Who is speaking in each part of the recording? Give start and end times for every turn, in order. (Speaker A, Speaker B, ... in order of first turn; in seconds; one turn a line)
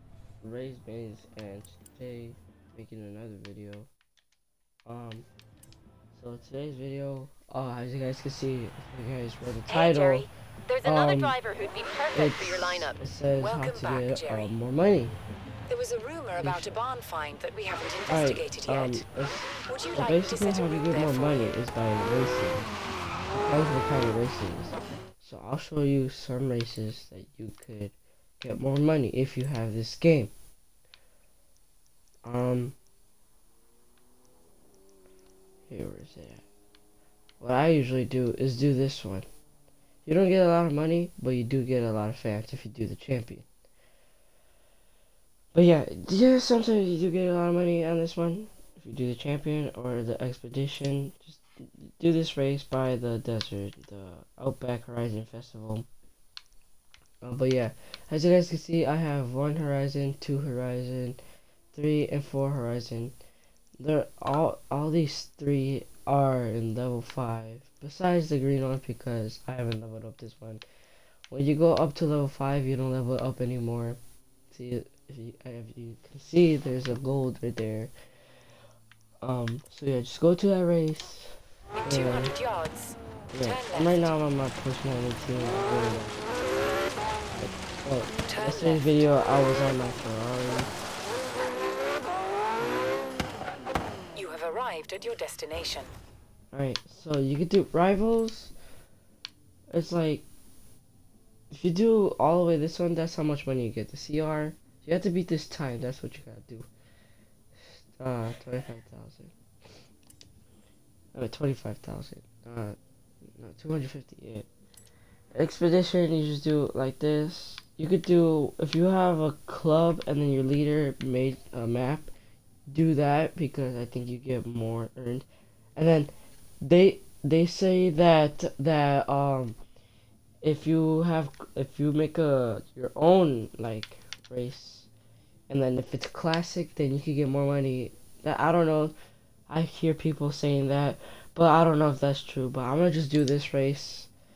Speaker A: 0.4-3.9
Speaker A: 4.9-5.3
Speaker A: 6.2-10.3
Speaker B: 9.7-10.2
Speaker C: 10.7-12.9
Speaker A: 10.8-11.4
Speaker A: 12.1-15.1
Speaker B: 13.4-14.5
Speaker B: 15.7-19.1
Speaker A: 16.4-16.8
Speaker A: 18.1-22.8
Speaker B: 19.7-21.6
Speaker A: 23.3-30.3
Speaker A: 32.2-32.8
Speaker A: 35.7-36.5
Speaker A: 37.4-39.3
Speaker A: 40.1-43.5
Speaker A: 45.5-55.9
Speaker A: 57.2-61.2
Speaker A: 61.7-63.1
Speaker A: 63.8-70.6
Speaker A: 71.3-74.0
Speaker A: 74.5-77.9
Speaker A: 79.2-82.3
Speaker B: 81.9-84.2
Speaker A: 83.3-86.3
Speaker A: 87.4-90.7
Speaker B: 88.3-89.2
Speaker A: 92.6-93.0
Speaker B: 94.2-95.9
Speaker A: 96.5-98.5
Speaker A: 99.7-100.2
Speaker A: 101.5-106.7
Speaker A: 107.7-109.3
Speaker A: 111.1-112.8
Speaker A: 113.4-114.5
Speaker A: 115.3-122.1
Speaker A: 122.7-129.6
Speaker A: 130.4-134.9
Speaker A: 135.5-138.9
Speaker A: 139.5-144.1